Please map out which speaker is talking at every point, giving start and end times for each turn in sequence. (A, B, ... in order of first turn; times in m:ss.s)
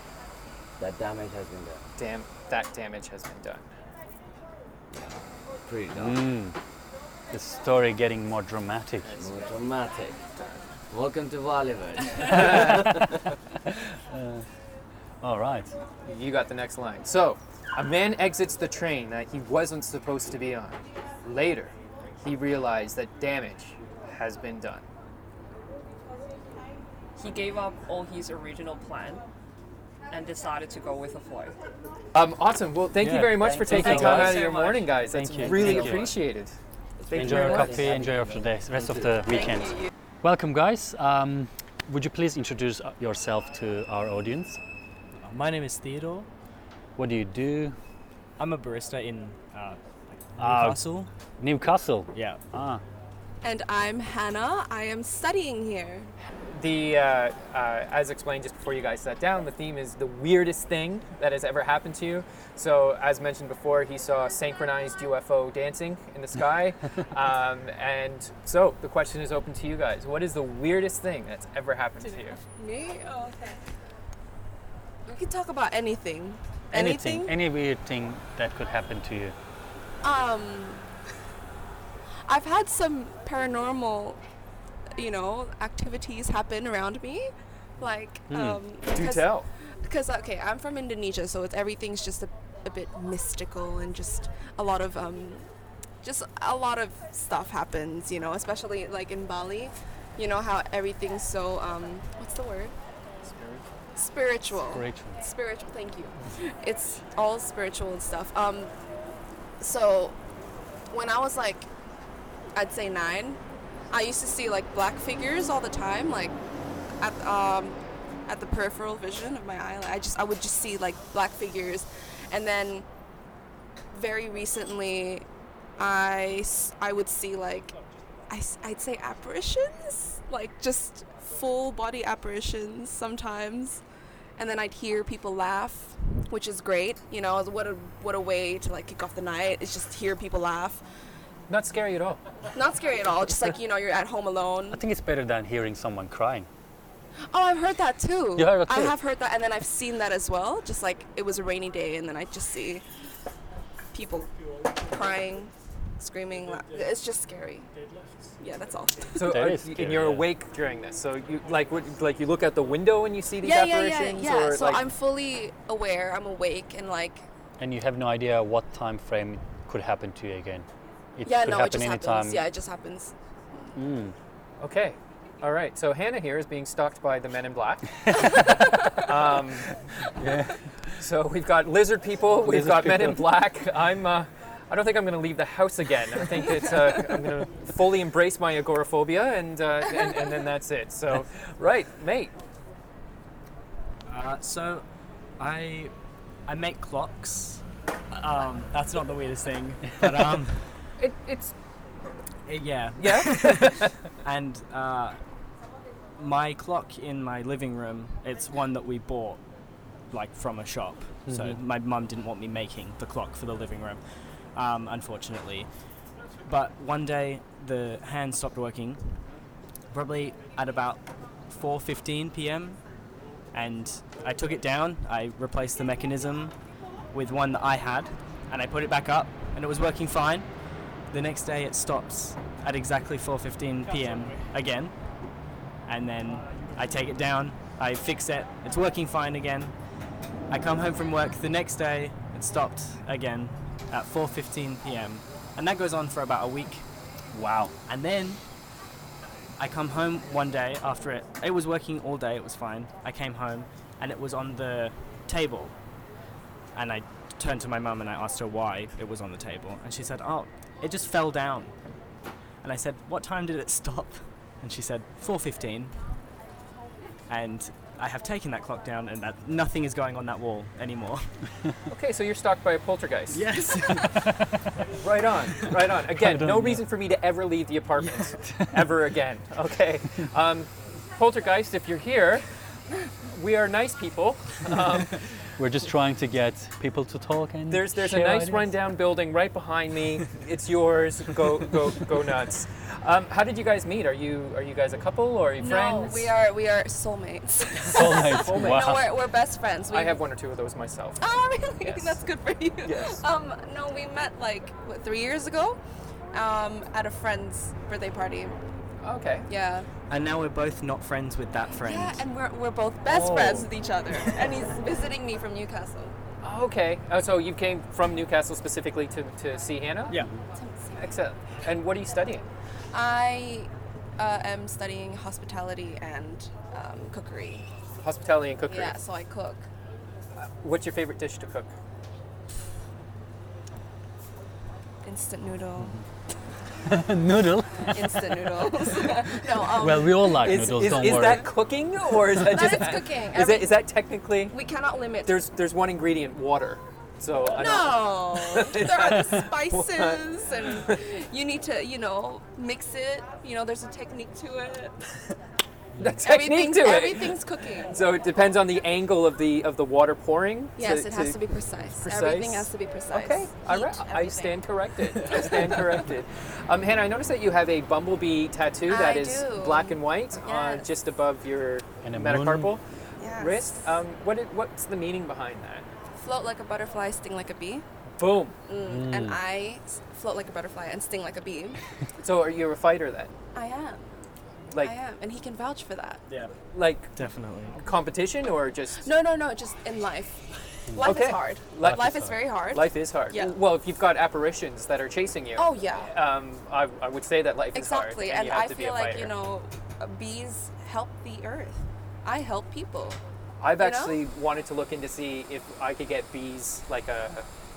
0:00.8-0:01.8 A
0:02.0-0:03.7 B
0:04.9-0:06.3 A
0:05.9-0:06.6 C
0:07.3-0:09.1 C
0:09.0-0:09.4 B
0:09.2-0:10.2 A
0:10.4-0:10.6 B
0:10.9-0:13.0 A
0:12.3-0:12.7 B
0:14.1-0:14.4 C
0:15.2-0:15.7 C
0:16.0-0:24.9 B
0:27.2-0:29.2 D
0:30.1-0:31.5 D
0:32.1-0:36.5 B
0:33.0-0:34.4 C
0:33.6-0:35.1 D
0:35.1-0:36.1 C
0:35.4-0:36.1 A
0:37.0-0:39.2 A
0:37.1-0:37.9 B
0:37.1-0:44.6 C
0:45.2-0:46.3 E
0:47.0-0:47.8 C
0:48.4-0:49.8 E
0:50.4-0:51.1 E
0:50.4-0:50.8 C
0:51.4-0:52.8 C
0:52.1-0:52.4 E
0:53.4-0:56.1 F
0:56.5-1:12.4 B
1:12.4-1:13.6 F
1:15.0-1:17.3 F
1:16.7-1:19.4 C
1:20.0-1:20.8 F
1:22.3-1:24.2 F
1:25.0-1:35.5 F
1:28.3-1:28.6 C
1:28.9-1:29.5 B
1:36.0-1:42.7 F
1:43.2-1:43.6 B
1:44.0-1:48.7 F
1:44.5-1:45.2 C
1:49.6-1:50.2 F
1:50.9-1:51.7 F
1:52.5-1:56.4 F
1:57.0-2:02.9 F
2:03.9-2:05.2 F
2:05.8-2:07.8 F
2:08.3-2:13.8 F
2:14.4-2:20.8 F
2:21.5-2:22.2 B
2:22.5-2:24.8 F
2:24.7-2:26.5 C
2:27.3-2:32.9 F
2:28.4-2:28.9 C
2:33.9-2:37.7 F
2:38.4-2:39.4 F
2:39.2-2:44.8 B
2:39.2-2:40.3 C
2:43.4-2:47.3 F
2:47.6-2:52.4 C
2:51.2-2:53.7 F
2:53.7-2:54.1 C
2:54.6-2:58.0 B
2:58.0-2:58.6 C
2:58.4-2:59.0 F
2:58.9-2:59.8 B
3:00.1-3:00.6 C
3:01.0-3:12.3 B
3:02.4-3:03.3 C
3:14.1-3:14.8 E
3:15.4-3:15.9 E
3:16.4-3:20.8 E
3:21.0-3:21.5 B
3:22.5-3:25.2 E
3:23.0-3:23.9 B
3:26.2-3:29.4 E
3:30.1-3:34.0 E
3:31.3-3:31.6 C
3:34.5-3:35.7 E
3:36.4-3:39.2 E
3:39.9-3:42.8 E
3:43.5-3:46.6 E
3:47.1-3:50.5 E
3:51.1-3:55.0 E
3:55.9-3:59.7 E
4:00.5-4:06.9 E
4:07.3-4:07.7 C
4:07.9-4:08.4 E
4:09.6-4:15.7 E
4:16.7-4:21.7 E
4:22.6-4:25.9 E
4:27.3-4:31.4 E
4:31.9-4:33.5 B
4:33.3-4:34.4 E
4:35.0-4:42.4 B
4:36.1-4:36.8 C
4:38.0-4:38.9 C
4:43.2-4:45.2 B
4:45.6-4:48.7 C
4:47.7-4:56.3 B
4:55.6-5:00.2 F
4:57.9-4:59.0 C
4:58.2-4:59.1 B
4:59.9-5:01.2 B
5:01.2-5:05.8 F
5:01.8-5:02.2 B
5:02.8-5:03.2 B
5:06.3-5:08.6 F
5:09.0-5:09.5 B
5:09.5-5:09.9 F
5:10.1-5:12.2 E
5:11.8-5:16.1 F
5:13.1-5:13.7 C
5:16.4-5:20.2 B
5:20.5-5:21.2 F
5:21.0-5:22.5 B
5:22.9-5:27.7 F
5:28.0-5:29.0 B
5:28.7-5:29.7 F
5:30.4-5:31.7 B
5:35.0-5:36.0 F
5:36.8-5:38.7 C
5:37.9-5:41.5 F
5:39.7-5:41.4 C
5:40.4-5:44.5 B
5:42.2-5:43.8 F
5:44.5-5:45.4 F
5:45.2-5:51.0 B
5:47.5-5:55.2 F
5:56.0-6:01.4 B
5:56.1-5:58.0 F
6:00.8-6:06.1 F
6:01.9-6:15.9 B
6:08.9-6:10.9 F
6:12.0-6:12.7 C
6:13.2-6:14.0 F
6:16.2-6:17.8 F
6:18.2-6:18.6 B
6:18.7-6:21.8 F
6:18.8-6:19.4 C
6:22.2-6:23.3 B
6:23.5-6:24.1 F
6:24.8-6:26.2 F
6:26.3-6:26.5 E
6:26.7-6:27.1 B
6:27.2-6:27.8 E
6:27.7-6:29.0 B
6:29.0-6:33.6 F
6:30.9-6:32.4 C
6:31.0-6:39.3 B
6:35.6-6:36.1 F
6:37.7-6:43.2 F
6:43.6-6:47.4 B
6:43.8-6:44.2 F